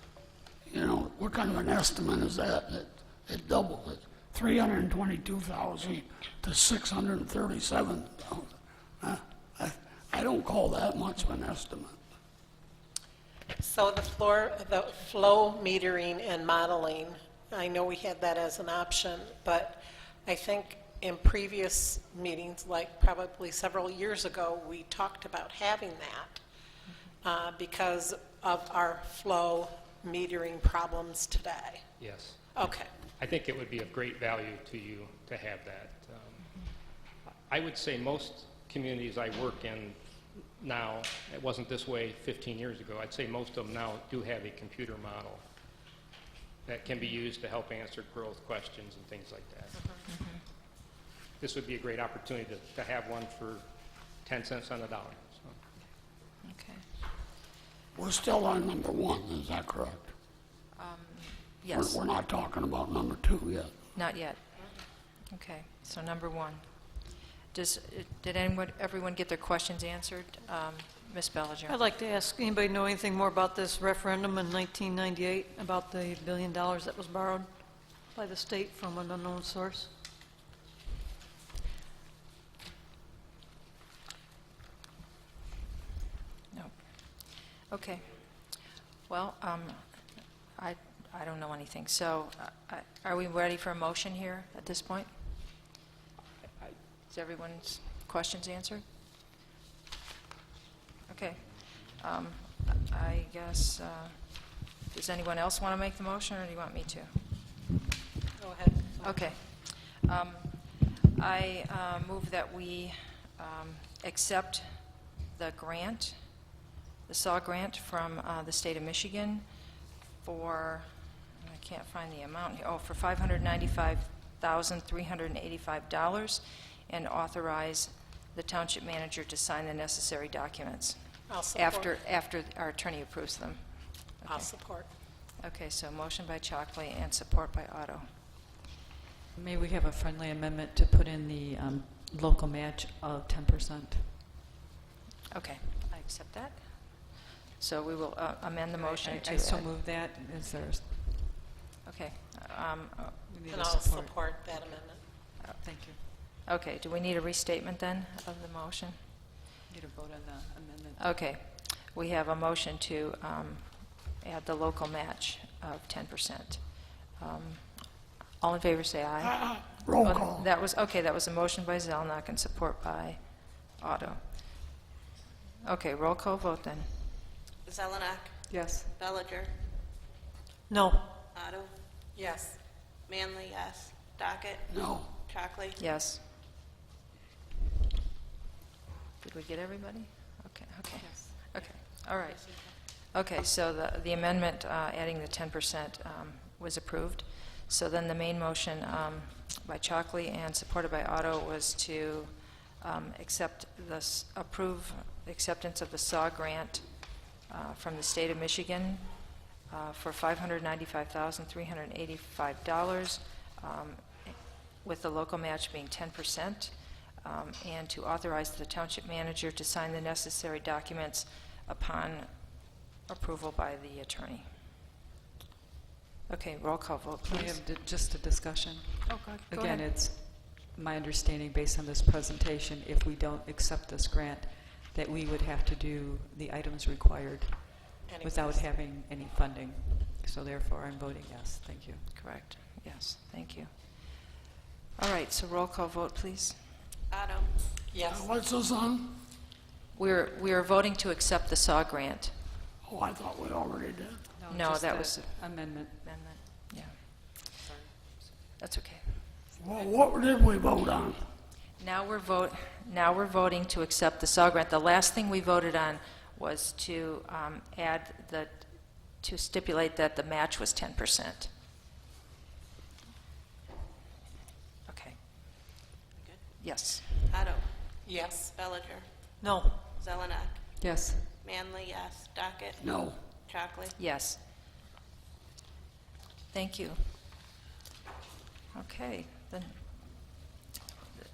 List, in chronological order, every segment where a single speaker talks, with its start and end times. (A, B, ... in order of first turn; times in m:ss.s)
0:00.7-0:12.0 A
0:13.6-0:26.4 B
0:27.2-0:31.8 B
0:32.0-0:36.6 C
0:32.6-0:32.9 B
0:37.5-0:40.0 C
0:40.6-0:45.4 C
0:46.6-0:49.9 C
0:50.1-0:50.4 D
0:51.4-0:53.7 C
0:54.2-0:55.6 C
0:56.4-0:56.8 D
0:57.9-1:00.1 A
1:00.8-1:02.0 D
1:01.7-1:03.7 A
1:04.0-1:04.4 D
1:05.3-1:07.0 D
1:07.5-1:11.8 D
1:11.7-1:17.5 E
1:18.0-1:19.9 E
1:26.5-1:28.5 D
1:29.1-1:30.0 D
1:30.6-1:35.1 D
1:37.1-1:38.8 D
1:41.1-1:47.1 D
1:48.4-1:49.2 B
1:49.0-1:50.6 D
1:51.1-1:54.7 D
1:55.3-1:56.2 D
1:57.1-1:59.4 D
2:00.2-2:18.1 D
2:11.3-2:11.9 B
2:14.2-2:14.9 B
2:19.4-2:24.2 F
2:25.3-2:29.7 D
2:28.7-2:31.4 F
2:31.8-2:33.2 D
2:33.2-2:34.6 F
2:33.5-2:35.0 B
2:35.3-2:36.0 F
2:36.4-2:39.0 D
2:39.7-2:41.2 F
2:41.0-2:54.7 D
2:49.2-2:50.5 A
2:55.6-2:57.0 D
2:57.6-2:59.5 G
2:58.5-2:58.9 F
3:00.7-3:01.1 E
3:01.3-3:01.7 G
3:02.2-3:02.6 B
3:03.1-3:05.8 G
3:04.7-3:05.1 A
3:05.8-3:06.2 D
3:09.2-3:44.5 D
3:11.0-3:11.5 F
3:46.3-3:47.6 D
3:47.2-4:02.1 F
3:49.1-3:49.9 D
3:58.0-3:58.7 B
4:02.1-4:04.3 D
4:05.0-4:06.6 D
4:07.1-4:07.5 G
4:07.9-4:08.3 B
4:08.0-4:09.2 A
4:09.9-4:12.4 D
4:12.8-4:14.2 A
4:14.4-4:16.0 F
4:14.5-4:15.3 D
4:16.0-4:17.5 D
4:17.6-4:17.9 F
4:18.6-4:19.2 D
4:19.6-4:21.3 A
4:21.8-4:31.5 D
4:34.9-4:35.5 D
4:36.2-4:37.7 G
4:36.6-4:37.1 D
4:38.0-4:38.5 B
4:38.5-4:39.1 G
4:39.4-4:39.8 E
4:40.0-4:40.6 G
4:40.8-4:41.3 F
4:41.4-4:43.9 G
4:42.8-4:43.2 A
4:44.0-4:44.4 D
4:46.5-4:47.1 D
4:48.7-4:49.7 D